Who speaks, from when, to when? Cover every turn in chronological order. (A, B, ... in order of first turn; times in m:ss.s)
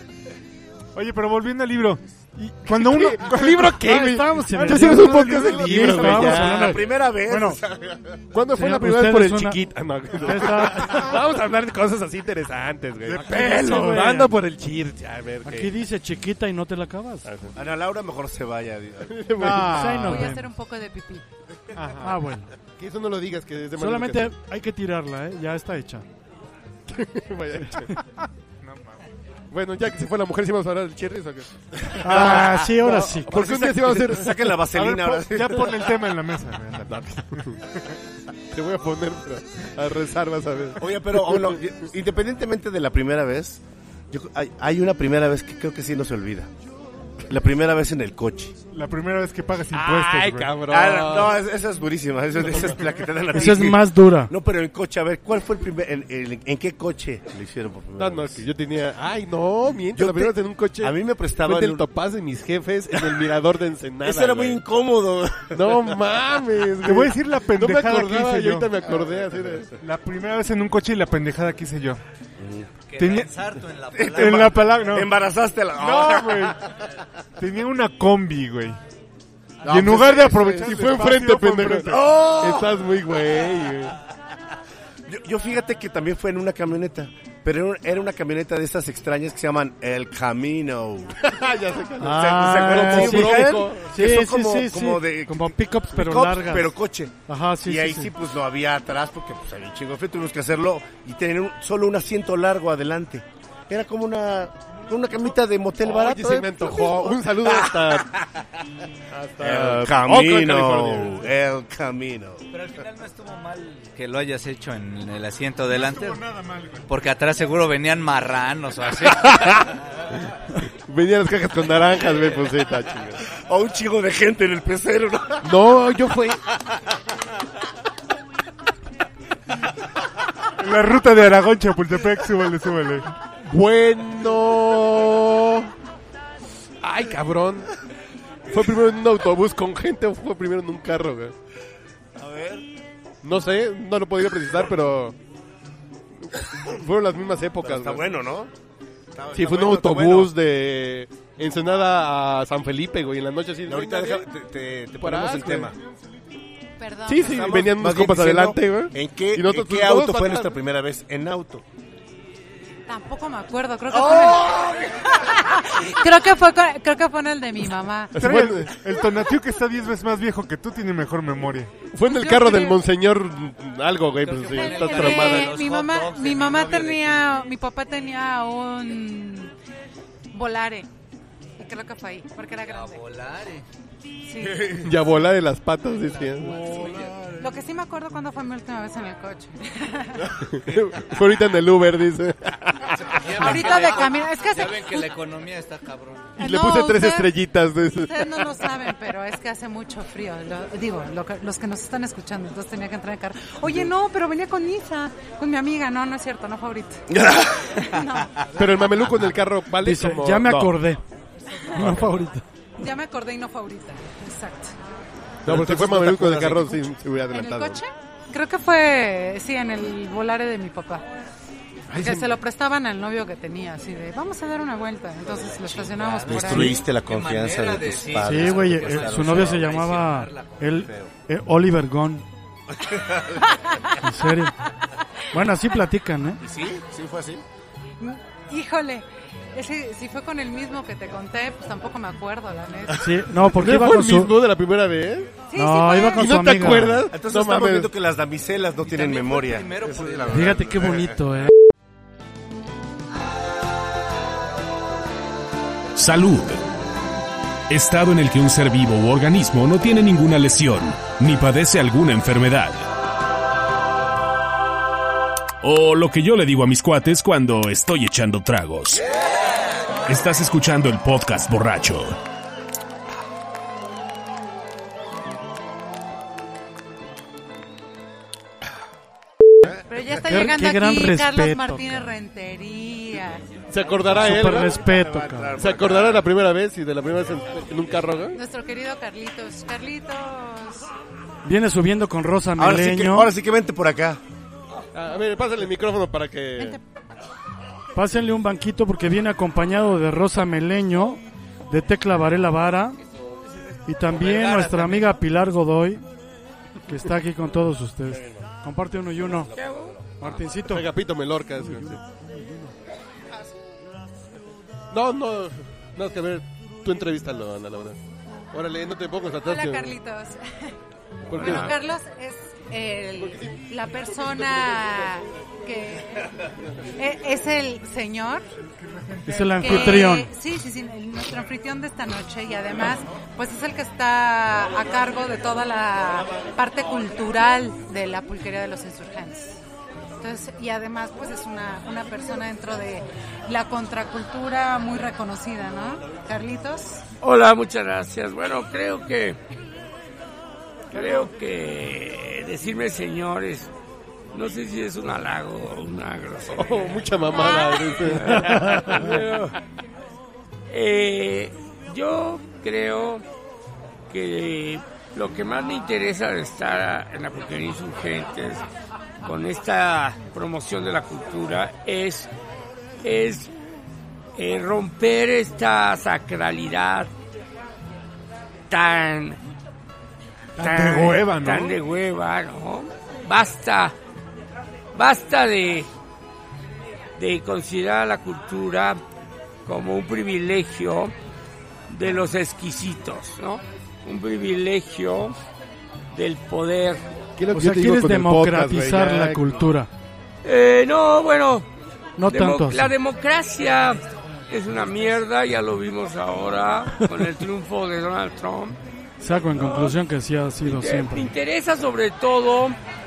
0:01.0-0:06.4 A
0:02.7-0:06.8 B
0:03.8-0:07.6 C
0:05.8-0:08.2 D
0:08.3-0:15.8 B
0:08.6-0:09.6 C
0:10.2-0:11.1 C
0:13.1-0:13.6 A
0:13.2-0:14.4 C
0:15.4-0:17.3 C
0:17.2-0:17.6 B
0:17.6-0:19.4 D
0:19.0-0:19.8 B
0:19.4-0:20.3 A
0:19.6-0:20.4 C
0:20.0-0:21.2 E
0:21.8-0:22.2 A
0:22.0-0:22.5 C
0:22.8-0:24.3 B
0:23.8-0:26.1 C
0:26.9-0:27.9 B
0:28.6-0:29.0 A
0:29.5-0:34.6 B
0:32.0-0:33.3 C
0:32.2-0:32.4 D
0:33.3-0:35.8 D
0:34.7-0:37.9 A
0:36.9-0:37.6 B
0:38.5-0:41.6 B
0:40.8-0:46.5 D
0:47.3-0:48.6 D
0:48.7-0:50.6 A
0:49.7-0:51.4 B
0:50.6-0:58.4 D
0:52.5-0:52.8 B
0:53.3-0:54.3 C
0:58.0-1:04.6 B
1:00.0-1:01.8 D
1:04.0-1:05.8 D
1:05.5-1:09.7 B
1:06.8-1:08.7 A
1:09.0-1:09.6 D
1:09.8-1:12.0 A
1:12.4-1:12.7 D
1:12.9-1:14.7 F
1:13.0-1:13.3 A
1:13.9-1:16.6 D
1:14.0-1:15.1 A
1:15.8-1:16.6 A
1:17.4-1:18.8 A
1:19.6-1:20.8 D
1:19.6-1:22.1 A
1:19.8-1:24.0 B
1:21.8-1:22.8 D
1:25.1-1:31.2 D
1:31.2-1:33.9 B
1:32.0-1:36.7 C
1:32.1-1:37.1 D
1:37.3-1:38.1 C
1:37.6-1:47.7 D
1:45.8-1:48.1 B
1:49.1-1:51.2 B
1:49.4-1:52.5 D
1:50.1-1:51.0 A
1:52.5-1:56.2 F
1:55.7-1:56.9 A
1:56.9-1:59.8 F
1:59.1-1:59.7 B
2:00.9-2:03.2 B
2:03.5-2:05.4 D
2:05.4-2:06.4 B
2:10.6-2:13.1 A
2:13.4-2:15.7 B
2:16.8-2:17.7 B
2:18.5-2:21.3 B
2:22.2-2:22.6 D
2:23.2-2:25.2 B
2:26.2-2:28.1 B
2:27.6-2:28.5 D
2:29.1-2:30.4 D
2:29.3-2:34.3 B
2:33.7-2:35.8 D
2:35.0-2:35.8 B
2:36.8-2:37.6 E
2:37.1-2:40.6 B
2:37.3-2:41.6 D
2:42.9-2:48.2 E
2:48.2-2:48.8 B
2:48.2-2:51.7 A
2:51.9-2:55.6 B
2:52.0-2:52.8 E
2:54.2-2:57.1 F
2:54.5-2:59.5 E
3:00.3-3:00.9 E
3:01.6-3:03.0 E
3:02.6-3:03.7 F
3:04.2-3:04.8 E
3:04.8-3:06.6 B
3:06.3-3:07.4 F
3:07.4-3:10.4 E
3:10.4-3:13.3 B
3:13.0-3:16.3 F
3:13.4-3:15.1 E
3:16.4-3:18.5 B
3:16.4-3:17.4 E
3:17.9-3:28.5 E
3:28.5-3:30.8 B
3:29.8-3:31.0 C
3:31.6-3:31.9 E
3:31.7-3:32.4 C
3:32.8-3:34.8 E
3:35.4-3:37.8 B
3:35.5-3:36.8 D
3:37.3-3:41.0 E
3:41.9-3:42.4 B
3:41.9-3:46.9 E
3:45.7-3:50.5 F
3:46.2-3:49.6 D
3:48.2-3:52.3 C
3:50.8-3:51.1 D
3:54.0-3:54.6 C
3:55.3-3:56.4 C
3:56.4-3:57.4 D
3:58.0-4:03.1 E
4:03.0-4:04.3 C
4:03.5-4:05.3 B
4:05.5-4:06.4 E
4:05.6-4:07.1 C
4:06.2-4:07.9 B
4:07.1-4:11.2 D
4:08.8-4:10.7 F
4:10.3-4:11.5 C
4:16.0-4:16.6 G
4:17.7-4:22.9 G
4:25.6-4:29.0 G
4:30.1-4:32.2 G
4:39.9-4:43.4 E
4:40.1-4:42.1 C
4:43.7-4:44.8 B
4:44.1-4:45.5 C
4:44.2-4:46.2 D
4:45.6-4:48.4 B
4:48.3-4:50.9 E
4:51.4-4:53.3 C
4:52.6-4:54.2 D
4:54.9-4:56.8 B
4:58.0-5:03.0 C
5:03.9-5:06.0 C
5:04.1-5:05.1 F
5:06.9-5:09.5 C
5:09.5-5:10.5 H
5:10.2-5:10.9 C
5:10.6-5:12.0 B
5:11.6-5:12.7 C
5:14.9-5:18.0 B
5:18.5-5:20.0 B
5:19.4-5:20.7 E
5:21.3-5:21.7 B
5:21.3-5:26.3 E
5:21.4-5:21.7 H
5:27.0-5:28.5 E
5:28.8-5:30.0 A
5:29.2-5:30.3 C
5:29.6-5:39.6 E
5:40.2-5:47.0 E
5:47.2-5:49.4 H
5:50.9-5:53.7 H
5:54.3-5:59.5 H
5:56.5-5:59.5 B
6:00.7-6:03.2 H
6:04.1-6:08.6 H
6:09.2-6:12.3 H
6:13.0-6:13.5 H
6:14.4-6:17.1 H
6:18.7-6:19.4 H
6:20.6-6:21.8 A
6:20.6-6:24.0 H
6:24.9-6:25.9 H
6:27.2-6:29.0 H
6:29.6-6:31.1 H
6:31.9-6:35.4 H
6:36.1-6:37.0 H
6:37.4-6:39.7 B
6:37.6-6:39.9 C
6:40.4-6:41.7 H
6:42.2-6:42.9 C
6:42.2-6:48.8 H
6:49.2-6:51.3 C
6:49.5-6:50.0 H
6:50.6-6:52.8 H